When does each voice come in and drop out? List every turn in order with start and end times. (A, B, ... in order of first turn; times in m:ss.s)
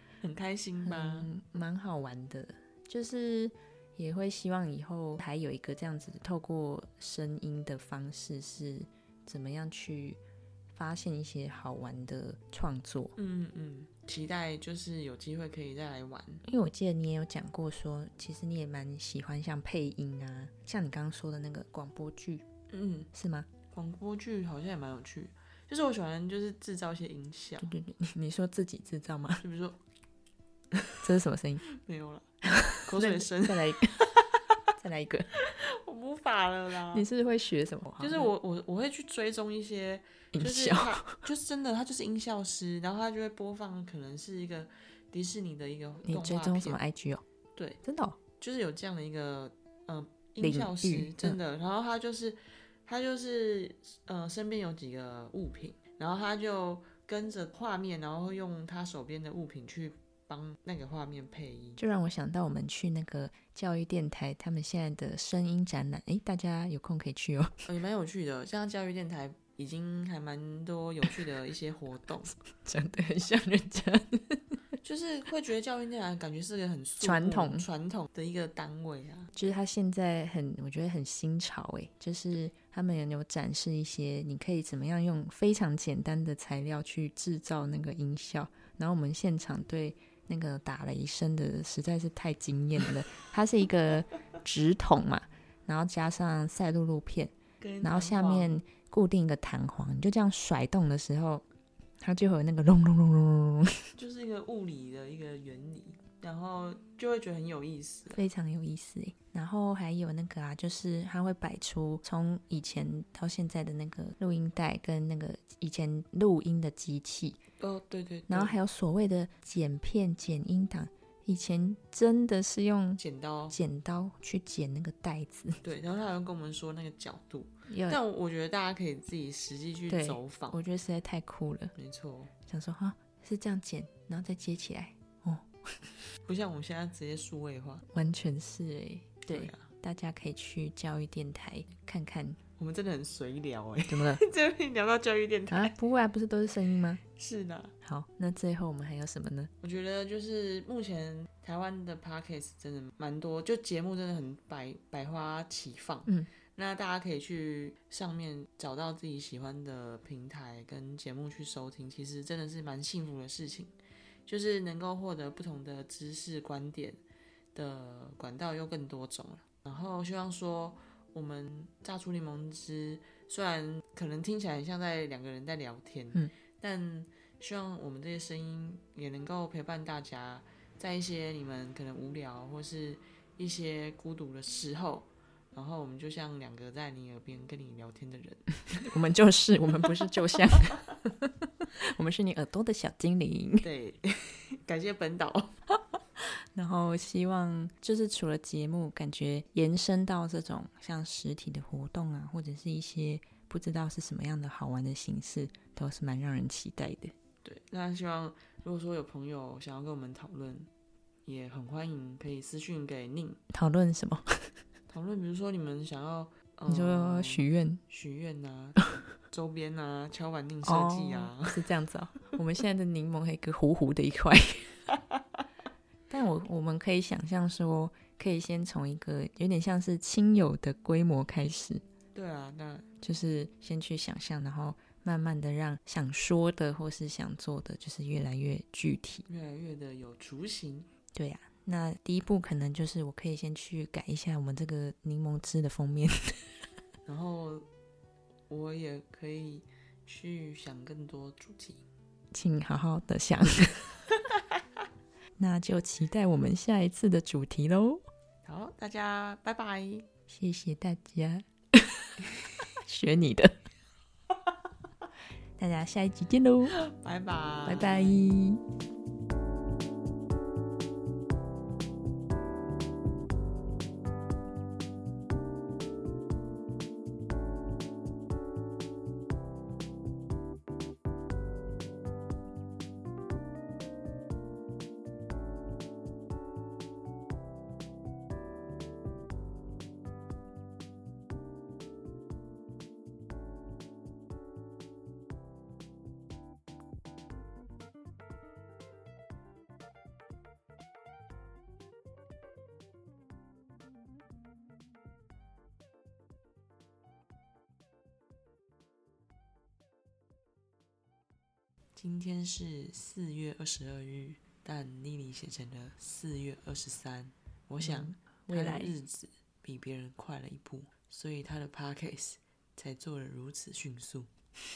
0:00.2-0:01.3 A
0:00.8-0:10.2 B
0:10.7-0:13.2 B
0:13.2-0:16.4 A
0:16.4-0:22.4 B
0:22.7-0:23.1 A
0:23.1-0:23.5 B
0:23.7-0:27.7 A
0:27.6-0:29.4 B
0:29.4-0:29.8 A
0:30.7-0:31.0 A
0:31.0-0:31.6 B
0:31.7-0:32.3 A
0:32.5-0:34.0 B
0:32.8-0:34.1 A
0:34.8-0:35.3 B
0:35.4-0:37.0 A
0:36.9-0:38.3 B
0:38.0-0:46.8 A
0:40.3-0:41.2 B
0:46.0-0:47.2 B
0:47.8-0:48.2 B
0:48.4-1:01.8 A
0:50.4-0:51.4 B
1:01.8-1:07.6 B
1:07.7-1:12.3 A
1:12.5-1:14.6 B
1:14.8-1:19.3 A
1:17.0-1:17.6 B
1:19.3-1:41.4 B
1:37.6-1:38.5 A
1:42.0-1:43.9 B
1:44.0-1:48.2 A
1:48.1-1:57.4 B
1:57.6-1:58.6 A
1:58.3-2:05.6 B
2:03.0-2:03.6 A
2:05.6-2:10.6 A
2:07.7-2:08.0 B
2:09.9-2:11.7 B
2:11.8-2:12.3 A
2:12.4-2:15.5 B
2:16.2-2:17.8 A
2:17.9-2:22.4 B
2:19.3-2:19.6 A
2:22.6-2:25.7 A
2:23.9-2:24.2 B
2:25.5-2:27.0 B
2:27.0-2:27.7 A
2:27.8-2:29.5 B
2:29.6-2:43.7 A
2:44.2-2:47.0 A
2:47.5-3:08.4 A
3:08.7-3:13.7 B
3:10.0-3:10.7 A
3:13.6-3:15.5 A
3:16.2-3:27.1 B
3:27.4-3:30.7 A
3:31.2-3:33.4 A
3:33.5-3:34.5 B
3:34.9-3:38.8 A
3:36.7-3:37.8 B
3:39.3-3:41.6 A
3:40.6-3:44.8 B
3:46.1-3:51.8 B
3:52.1-3:52.9 A
3:53.0-3:59.2 B
3:59.3-4:00.9 A
4:01.1-4:06.4 B
4:07.0-4:07.6 A
4:08.5-4:11.8 A
4:12.3-4:13.8 B
4:15.4-4:18.0 B
4:18.4-4:20.1 A
4:20.3-4:22.2 B
4:22.8-4:23.6 B
4:25.6-4:26.8 B
4:26.7-4:28.3 A
4:27.6-4:28.6 B
5:12.0-5:24.3 A
5:17.8-5:18.9 B